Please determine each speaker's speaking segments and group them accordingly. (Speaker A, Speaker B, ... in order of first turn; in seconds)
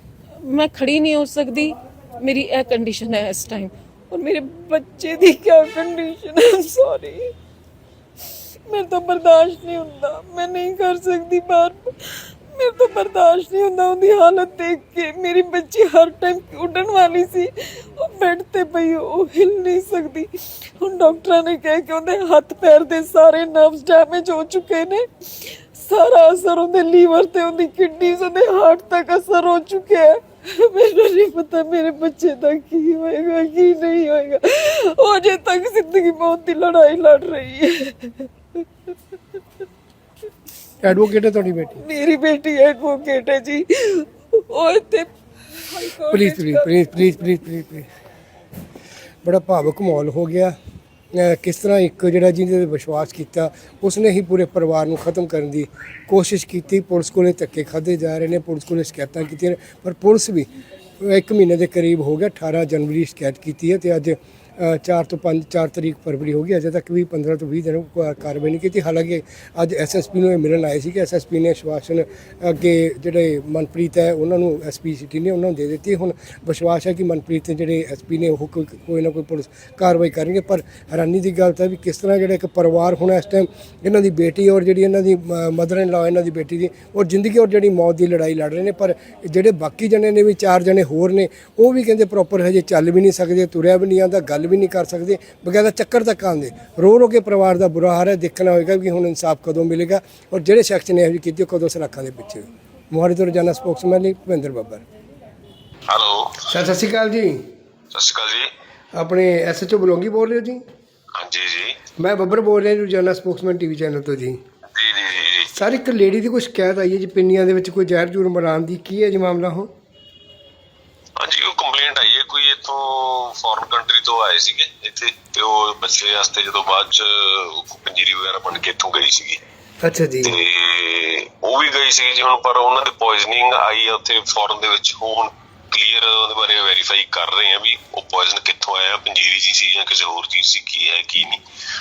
Speaker A: 0.4-7.3, 8.7-38.6, 41.8-47.1
Speaker B: 40.8-41.8, 46.1-47.9, 49.2-50.5, 51.1-60.5, 61.0-104.8, 106.5-107.4, 108.9-110.6, 112.0-114.4, 115.5-119.7, 129.8-130.4
Speaker C: 105.9-106.5, 107.9-108.5, 111.2-111.8, 114.7-115.5, 121.2-129.4, 130.2-141.4